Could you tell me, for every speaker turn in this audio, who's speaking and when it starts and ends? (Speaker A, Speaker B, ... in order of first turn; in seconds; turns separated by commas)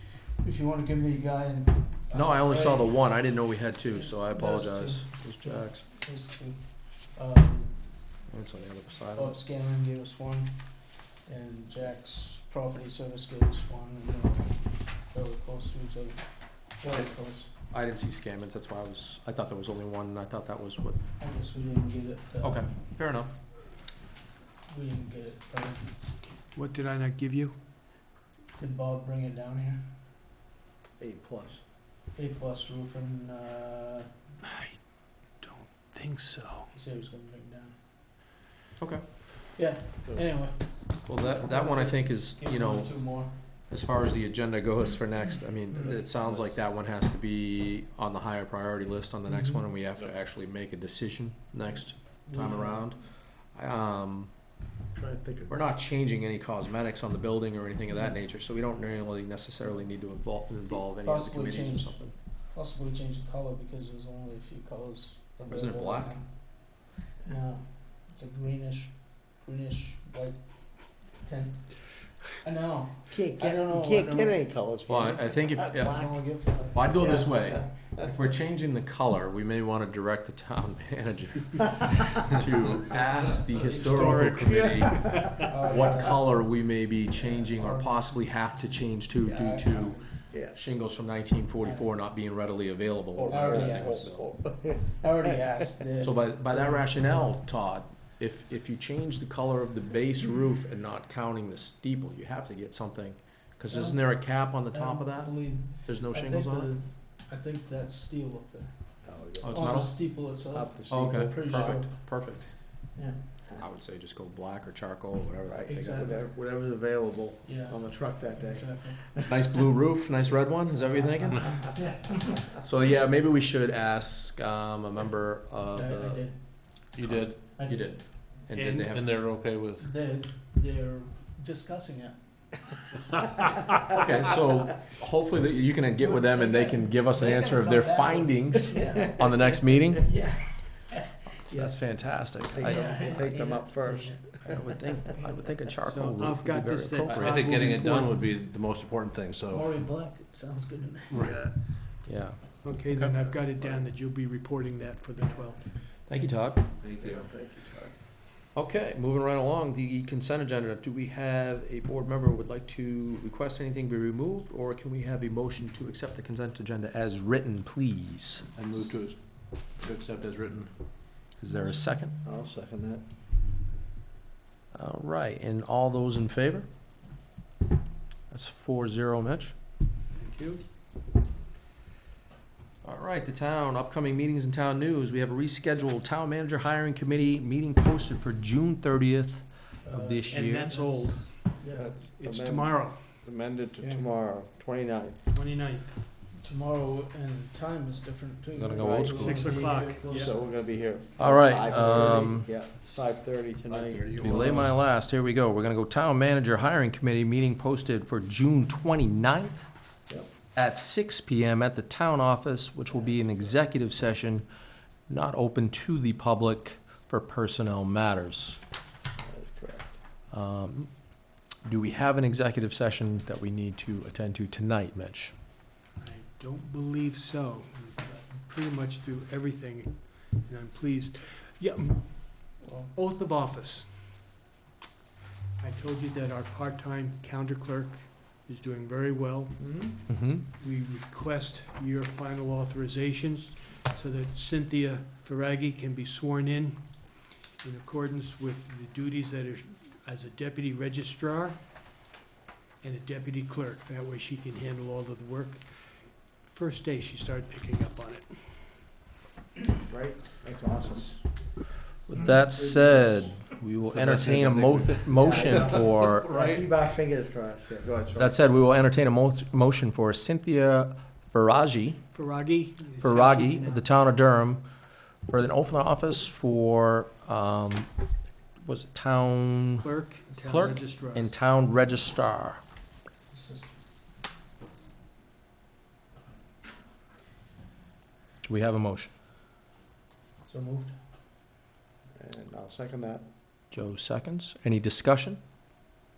Speaker A: 0.4-3.0, Speaker B: 2.1-5.8, Speaker A: 3.9-8.2, Speaker B: 8.3-9.4, Speaker A: 9.1-17.5, Speaker B: 17.6-21.0, Speaker A: 21.2-22.6, Speaker B: 22.4-23.3, Speaker A: 24.6-26.2, Speaker C: 26.5-27.6, Speaker A: 28.6-29.9, Speaker D: 31.0-31.6, Speaker A: 32.1-34.1, Speaker C: 34.4-36.7, Speaker A: 36.7-37.8, Speaker B: 38.8-39.1, Speaker A: 39.5-43.4, Speaker B: 41.0-54.5, Speaker E: 45.9-46.6, Speaker A: 52.2-52.9, Speaker D: 55.0-55.5, Speaker B: 55.5-62.1, Speaker A: 60.7-74.5, Speaker B: 65.5-66.2, Speaker D: 73.1-77.4, Speaker B: 74.8-94.2, Speaker A: 75.8-77.7, Speaker A: 82.9-86.5, Speaker C: 83.8-84.5, Speaker D: 83.9-85.2, Speaker A: 87.1-90.1, Speaker D: 90.3-90.6, Speaker A: 91.6-92.0, Speaker D: 93.1-95.0, Speaker A: 93.3-97.4, Speaker B: 96.0-106.7, Speaker A: 103.7-112.0, Speaker D: 109.0-109.6, Speaker B: 109.4-110.2, Speaker D: 110.5-111.9, Speaker B: 110.9-112.8, Speaker A: 112.9-113.2, Speaker B: 113.6-116.1, Speaker D: 115.5-119.6, Speaker A: 115.7-116.2, Speaker A: 117.4-119.0, Speaker B: 119.2-129.3, Speaker A: 121.3-122.4, Speaker D: 121.4-122.1, Speaker A: 125.7-126.9, Speaker E: 126.9-127.5, Speaker A: 127.5-128.2, Speaker C: 128.5-129.2, Speaker E: 128.6-129.9, Speaker A: 129.8-132.8, Speaker B: 133.9-140.2, Speaker A: 136.0-141.8, Speaker B: 141.5-143.2, Speaker D: 142.5-145.0, Speaker A: 142.5-145.5, Speaker B: 144.4-147.5, Speaker C: 145.8-148.2, Speaker E: 147.1-149.8, Speaker A: 149.5-151.3, Speaker E: 151.1-151.6, Speaker B: 152.0-153.2, Speaker C: 152.6-155.8, Speaker B: 156.0-156.7, Speaker E: 156.8-157.3, Speaker D: 156.9-157.9, Speaker B: 158.5-168.4, Speaker E: 168.5-170.7, Speaker B: 171.3-172.2, Speaker D: 172.2-173.0, Speaker B: 174.7-176.7, Speaker B: 178.3-179.5, Speaker C: 180.2-180.6, Speaker B: 182.8-190.8, Speaker A: 189.8-191.9, Speaker C: 190.3-193.1, Speaker D: 191.7-195.2, Speaker A: 193.8-194.1, Speaker C: 195.3-196.0, Speaker A: 196.4-200.5, Speaker B: 198.5-199.5, Speaker D: 198.8-204.5, Speaker C: 199.1-200.3, Speaker B: 201.2-202.6, Speaker E: 201.8-202.3, Speaker E: 203.6-204.8, Speaker B: 204.2-209.7, Speaker B: 210.5-214.5, Speaker D: 212.9-213.4, Speaker B: 215.1-218.6, Speaker D: 219.2-219.9, Speaker B: 220.3-225.3, Speaker C: 226.0-234.3, Speaker A: 232.6-232.9, Speaker C: 235.6-251.6, Speaker D: 239.6-239.9, Speaker B: 240.1-240.4, Speaker C: 252.8-258.9, Speaker D: 259.9-261.2, Speaker B: 262.1-266.3, Speaker D: 262.5-263.3, Speaker E: 263.8-266.7, Speaker D: 265.2-268.4, Speaker B: 268.2-272.0, Speaker C: 272.1-273.9, Speaker B: 273.0-274.6, Speaker B: 275.2-277.9, Speaker B: 278.6-282.6, Speaker C: 279.8-281.4, Speaker A: 283.3-283.8, Speaker B: 288.4-289.1, Speaker A: 290.4-290.9, Speaker D: 292.1-293.3, Speaker B: 293.7-295.4